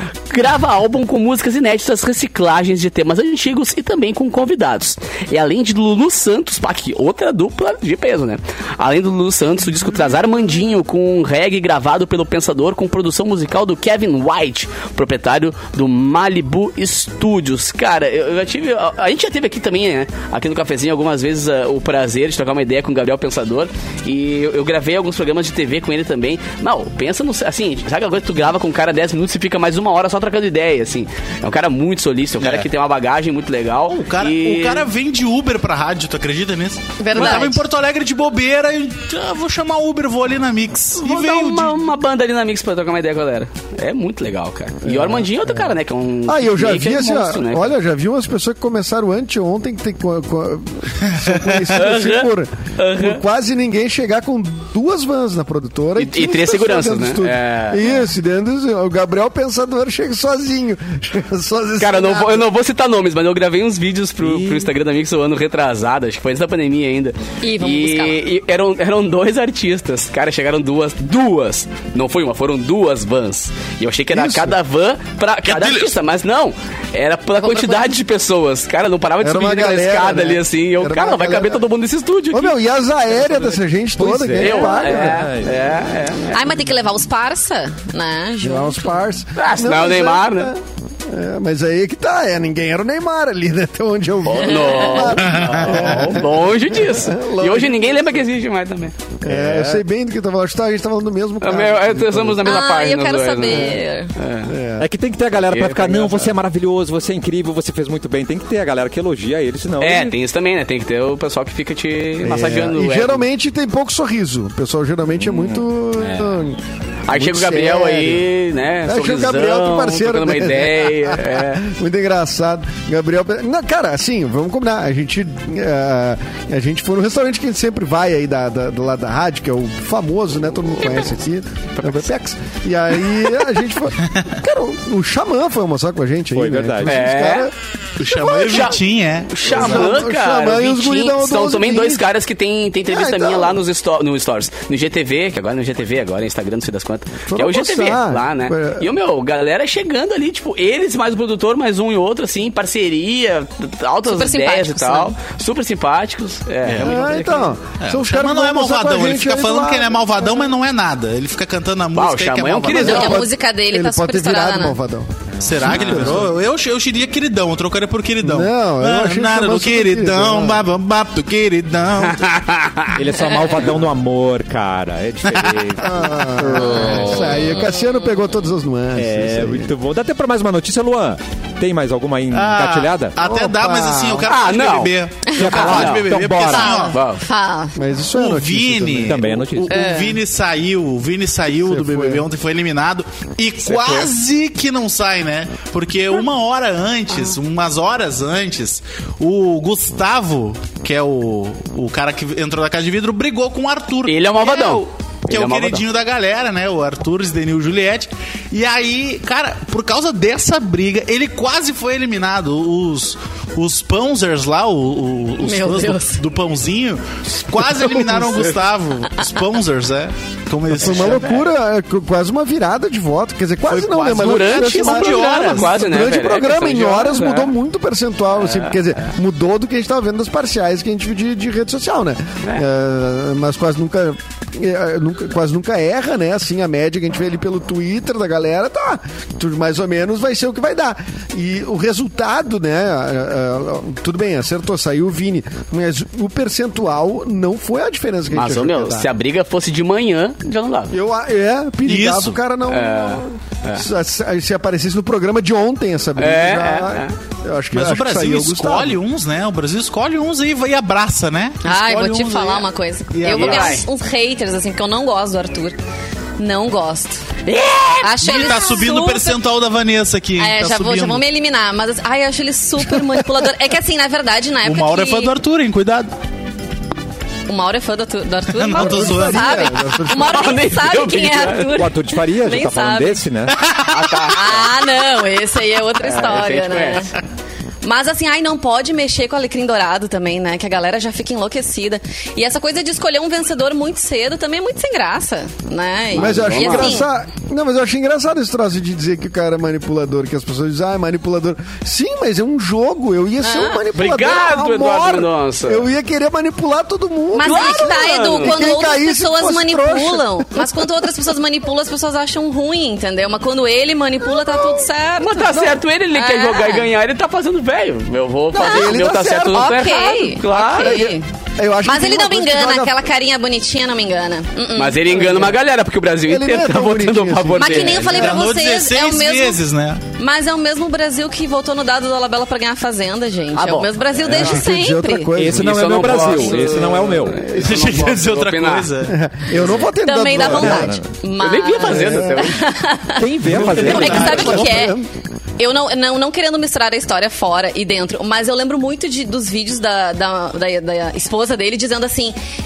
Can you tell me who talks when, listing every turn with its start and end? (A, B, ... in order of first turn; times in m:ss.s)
0:00.3-0:34.9 A
0:32.4-0:32.7 B
0:33.9-0:41.8 B
0:37.0-0:37.6 C
0:37.2-0:37.5 A
0:41.0-0:47.7 A
0:44.8-0:45.7 D
0:46.3-1:02.5 D
0:51.7-0:53.2 A
0:56.0-0:58.0 A
1:01.8-1:22.6 A
1:04.2-1:04.7 E
1:07.4-1:08.2 C
1:14.1-1:14.6 D
1:15.4-1:16.0 B
1:17.3-1:18.0 C
1:19.2-1:21.6 D
1:22.3-1:25.2 D
1:24.0-1:25.8 E
1:24.4-1:26.6 A
1:26.3-1:28.8 C
1:28.4-1:38.3 D
1:29.4-1:30.5 A
1:34.3-1:38.9 A
1:34.5-1:35.2 C
1:35.2-1:36.0 B
1:39.2-1:42.5 D
1:39.3-1:39.8 E
1:41.4-1:44.5 A
1:42.4-1:44.1 C
1:44.5-1:44.9 D
1:44.8-1:50.2 E
1:45.4-1:46.3 A
1:49.8-1:53.2 A
1:52.2-1:56.6 D
1:55.3-1:55.6 E
1:56.0-1:56.4 A
1:57.1-2:01.7 A
1:57.1-1:58.3 D
1:58.8-2:17.5 D
2:10.8-2:11.1 A
2:16.3-2:17.0 E
2:16.8-2:17.5 A
2:18.0-2:20.0 B
2:18.1-2:37.6 A
2:19.5-2:22.1 D
2:22.9-2:23.6 D
2:27.3-2:28.9 D
2:34.1-2:35.2 C
2:36.6-2:37.0 B
2:36.8-2:40.5 D
2:37.8-2:43.2 B
2:41.9-2:43.2 A
2:42.7-2:46.3 D
2:42.7-2:44.8 C
2:45.4-2:52.5 B
2:45.6-2:46.3 E
2:48.2-2:50.7 D
2:52.3-2:53.0 A
2:52.9-2:57.4 E
2:55.8-2:59.7 D
2:56.7-2:57.9 C
2:56.8-2:57.1 A
2:59.0-3:03.1 E
3:02.3-3:07.0 B
3:03.2-3:04.3 D
3:04.3-3:04.9 A
3:05.3-3:05.6 C
3:05.4-3:06.7 E
3:05.5-3:07.3 A
3:06.8-3:07.8 C
3:07.8-3:09.3 D
3:08.1-3:41.4 B
3:09.1-3:09.8 E
3:09.7-3:10.2 C
3:11.5-3:12.3 D
3:13.6-3:14.1 A
3:24.1-3:25.8 A
3:35.4-3:36.2 C
3:40.8-4:09.1 D
3:43.7-3:45.7 B
3:44.2-3:47.5 A
3:48.4-3:49.1 A
4:08.3-4:10.9 A
4:10.9-4:19.0 D
4:11.8-4:12.4 B
4:12.7-4:13.9 A
4:16.2-4:17.1 A
4:17.7-4:23.8 B
4:21.6-4:25.8 C
4:23.3-4:23.8 A
4:26.4-4:27.4 C
4:27.5-4:28.0 A
4:28.0-4:29.4 C
4:28.2-4:31.2 B
4:30.4-4:35.3 C
4:34.6-4:36.1 B
4:37.5-4:43.2 C
4:38.5-4:39.7 B
4:38.7-4:40.6 D
4:40.3-4:41.7 A
4:41.7-4:43.6 E
4:43.5-4:43.9 B
4:43.9-4:44.7 A
4:44.2-4:47.1 C
4:46.0-4:47.1 A
4:47.8-4:57.1 C
4:56.1-4:57.0 A
4:56.1-5:11.0 D
5:03.4-5:03.8 C
5:03.9-5:05.9 A
5:07.3-5:16.9 C
5:07.4-5:08.6 A
5:15.2-5:21.1 A
5:18.5-5:19.8 D
5:18.6-5:19.0 C
5:19.5-5:21.3 C
5:20.7-5:23.0 D
5:21.8-5:25.4 C
5:24.8-5:28.2 A
5:25.2-5:25.5 D
5:26.3-5:28.4 D
5:27.6-5:29.6 C
5:28.1-5:30.0 B
5:30.2-5:35.4 C
5:33.5-5:34.4 A
5:34.2-5:36.2 D
5:35.3-5:37.4 E
5:35.6-5:38.9 A
5:37.4-5:39.2 B
5:37.5-5:38.1 D
5:39.0-5:41.0 D
5:39.6-5:39.9 A
5:40.0-5:45.0 C
5:40.3-5:41.1 E
5:41.4-5:42.6 A
5:41.8-5:42.5 D
5:43.1-5:44.7 E
5:43.6-5:44.7 B
5:43.7-5:45.1 D
5:43.8-5:44.3 A
5:45.6-5:52.4 C